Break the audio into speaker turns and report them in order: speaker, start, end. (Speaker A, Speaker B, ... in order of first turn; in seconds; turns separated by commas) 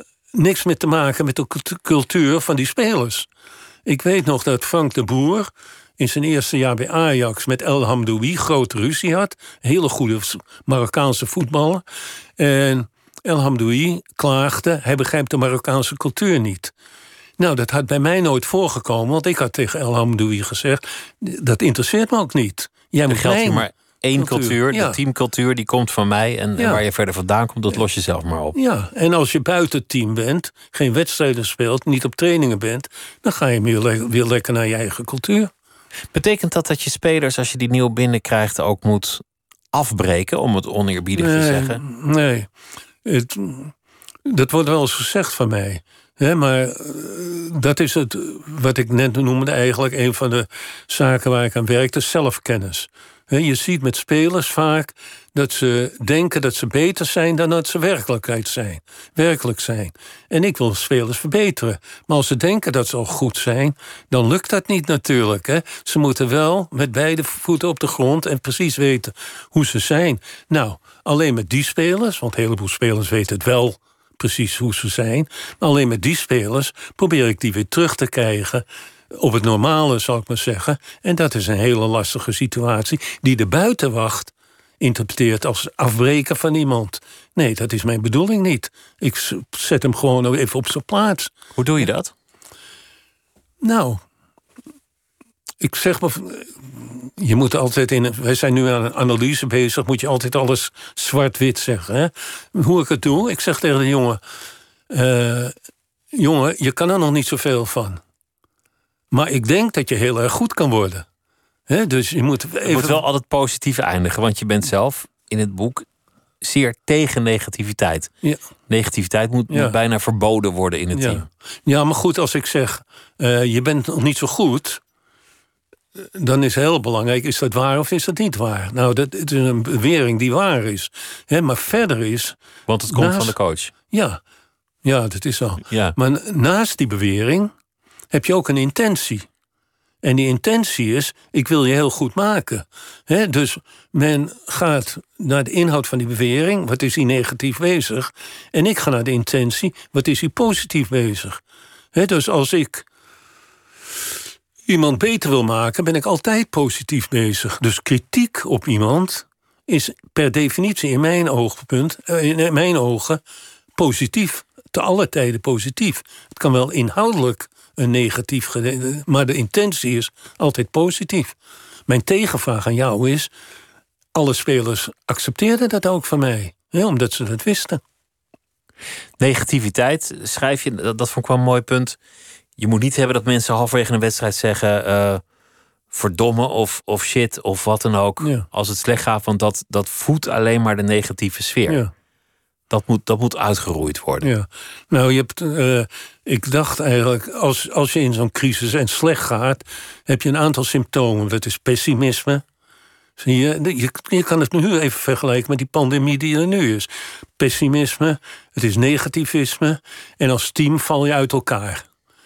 Speaker A: 0.3-3.3, Speaker A: 3.9-11.8, Speaker A: 12.4-16.7, Speaker A: 17.4-25.0, Speaker B: 23.1-28.6, Speaker A: 26.6-26.8, Speaker A: 28.5-35.5, Speaker B: 36.1-41.8, Speaker A: 41.2-42.5, Speaker A: 43.0-43.7, Speaker A: 44.3-91.3, Speaker B: 91.6-92.1, Speaker A: 93.6-94.0, Speaker A: 95.6-104.2, Speaker A: 104.9-105.5, Speaker A: 106.1-108.0, Speaker A: 109.1-111.1, Speaker A: 111.7-113.0, Speaker B: 112.6-115.9, Speaker B: 116.4-118.1, Speaker B: 118.7-121.3, Speaker A: 119.5-119.8, Speaker A: 120.9-124.8, Speaker A: 126.0-132.4, Speaker B: 132.7-133.7, Speaker A: 132.9-133.4, Speaker A: 133.9-134.2, Speaker A: 134.8-137.5, Speaker B: 135.7-136.0, Speaker A: 138.1-139.3, Speaker A: 140.0-151.4, Speaker A: 151.9-152.9, Speaker A: 154.7-163.2, Speaker A: 163.8-171.4, Speaker A: 171.9-173.3, Speaker A: 174.1-177.8, Speaker B: 179.2-182.0, Speaker B: 182.6-185.2, Speaker B: 185.9-191.8, Speaker B: 192.7-194.3, Speaker A: 194.2-202.4, Speaker A: 203.2-211.9